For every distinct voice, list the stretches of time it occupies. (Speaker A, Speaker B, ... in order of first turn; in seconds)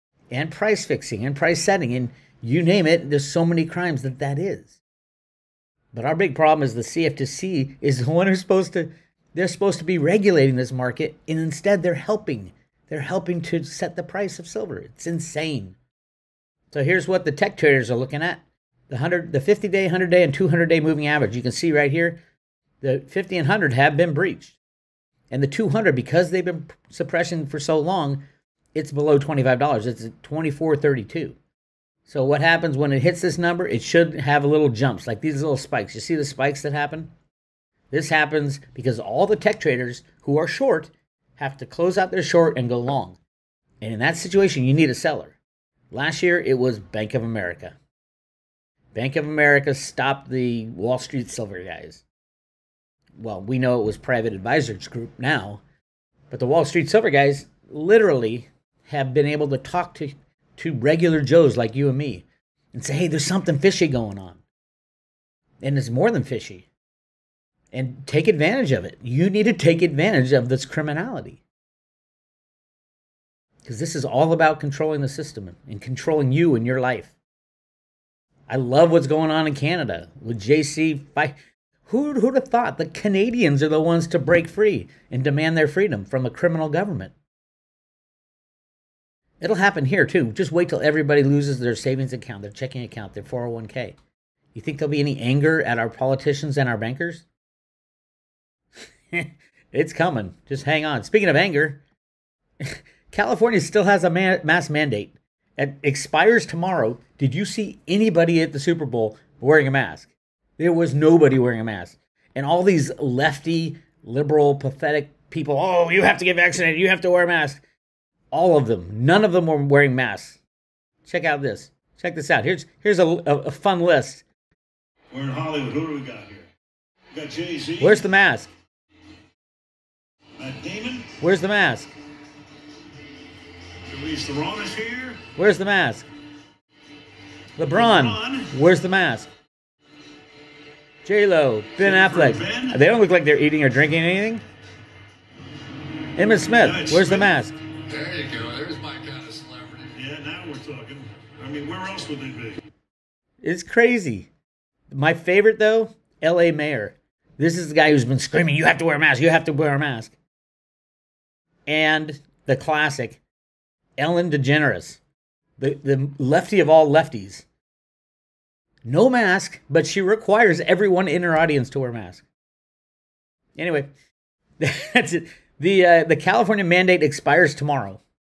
Speaker A: 0.3-4.8, 5.9-15.8, 16.7-22.2, 22.8-24.6, 25.3-28.2, 28.7-31.4, 32.0-37.1, 37.9-43.2, 43.8-45.4, 45.9-47.8, 48.9-52.0, 53.2-55.6, 56.3-64.4, 65.6-66.7, 67.7-71.4, 73.6-77.1, 78.5-81.3, 81.8-87.1, 89.4-94.0, 94.5-97.3, 99.1-101.8, 102.6-117.6, 118.3-120.4, 121.0-124.2, 127.8-128.5, 131.2-131.9, 135.3-136.1, 137.6-139.3, 141.0-144.4, 146.2-147.5, 153.4-154.3, 154.9-160.2, 161.7-163.2, 164.0-165.0, 165.6-167.4, 168.8-172.2, 173.6-173.9, 174.6-178.0
Speaker B: 125.1-126.5, 127.1-128.0, 130.4-131.2, 133.9-135.2, 137.7-138.5, 141.8-142.7, 146.6-147.3, 149.9-152.6
Speaker C: 147.8-150.0